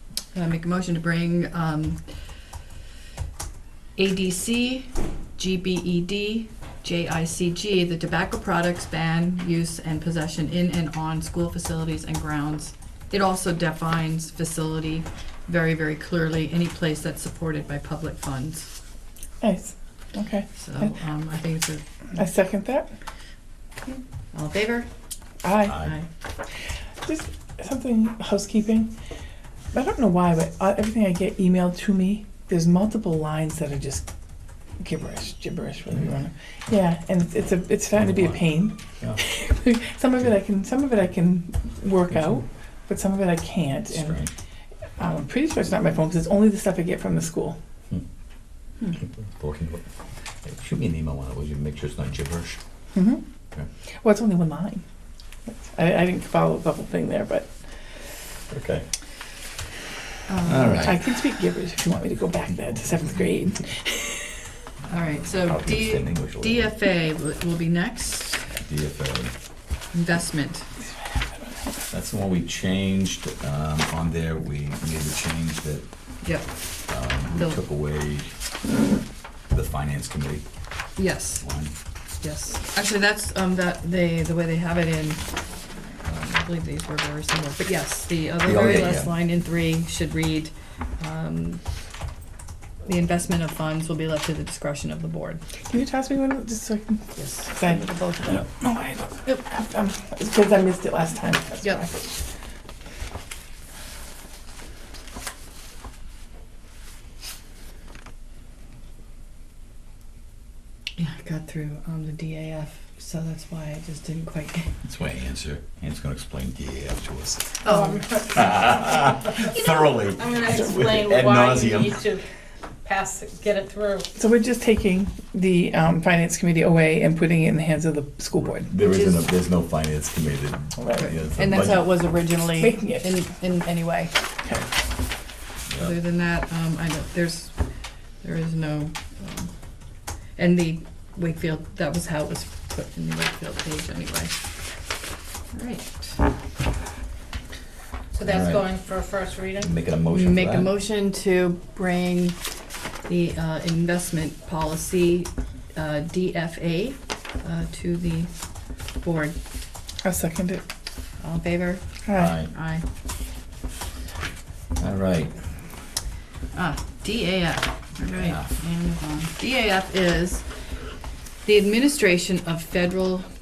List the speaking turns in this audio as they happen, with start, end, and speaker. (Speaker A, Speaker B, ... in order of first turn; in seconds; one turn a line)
Speaker A: 0.3-2.0
Speaker A: 4.0-18.7
Speaker B: 19.4-20.9
Speaker A: 20.6-22.2
Speaker B: 22.1-22.9
Speaker A: 23.9-24.9
Speaker B: 25.4-25.9
Speaker C: 25.7-25.9
Speaker B: 27.0-28.9
Speaker B: 29.7-34.0
Speaker B: 34.8-44.2
Speaker C: 37.9-39.2
Speaker C: 43.9-44.3
Speaker B: 45.0-47.6
Speaker C: 49.0-49.9
Speaker C: 50.4-52.6
Speaker B: 53.0-53.2
Speaker B: 54.0-54.8
Speaker B: 55.6-57.5
Speaker C: 58.5-58.9
Speaker A: 60.3-60.9
Speaker C: 60.4-61.0
Speaker B: 60.7-64.3
Speaker A: 64.9-68.5
Speaker C: 65.4-66.7
Speaker C: 68.5-69.3
Speaker A: 69.9-70.7
Speaker B: 71.0-71.7
Speaker C: 71.9-75.9
Speaker A: 76.2-76.5
Speaker C: 76.9-78.3
Speaker C: 79.5-80.5
Speaker A: 81.0-81.5
Speaker C: 81.4-81.7
Speaker A: 82.2-85.3
Speaker A: 86.0-91.6
Speaker C: 88.4-89.1
Speaker A: 92.8-95.4
Speaker B: 95.7-97.9
Speaker A: 97.1-98.4
Speaker B: 98.6-102.1
Speaker A: 111.0-114.7
Speaker C: 114.8-117.6
Speaker D: 117.6-119.5
Speaker A: 117.6-118.0
Speaker C: 118.2-122.0
Speaker D: 120.1-122.2
Speaker D: 122.8-124.1
Speaker B: 124.2-128.7
Speaker C: 128.6-131.9
Speaker A: 128.8-129.3
Speaker B: 130.8-131.1
Speaker A: 131.0-134.1
Speaker B: 132.6-133.2
Speaker A: 135.7-137.6
Speaker A: 138.2-139.5
Speaker A: 140.4-144.4
Speaker A: 145.5-146.2
Speaker D: 148.1-149.7
Speaker C: 148.2-148.8
Speaker C: 149.6-150.8
Speaker A: 150.1-152.4
Speaker A: 153.1-158.3
Speaker A: 159.0-159.4
Speaker B: 160.0-160.6
Speaker A: 161.2-161.8
Speaker B: 162.1-162.4
Speaker C: 162.1-162.5
Speaker A: 162.5-162.8
Speaker C: 164.8-165.5
Speaker A: 166.5-170.4
Speaker C: 168.1-168.5
Speaker A: 171.4-173.3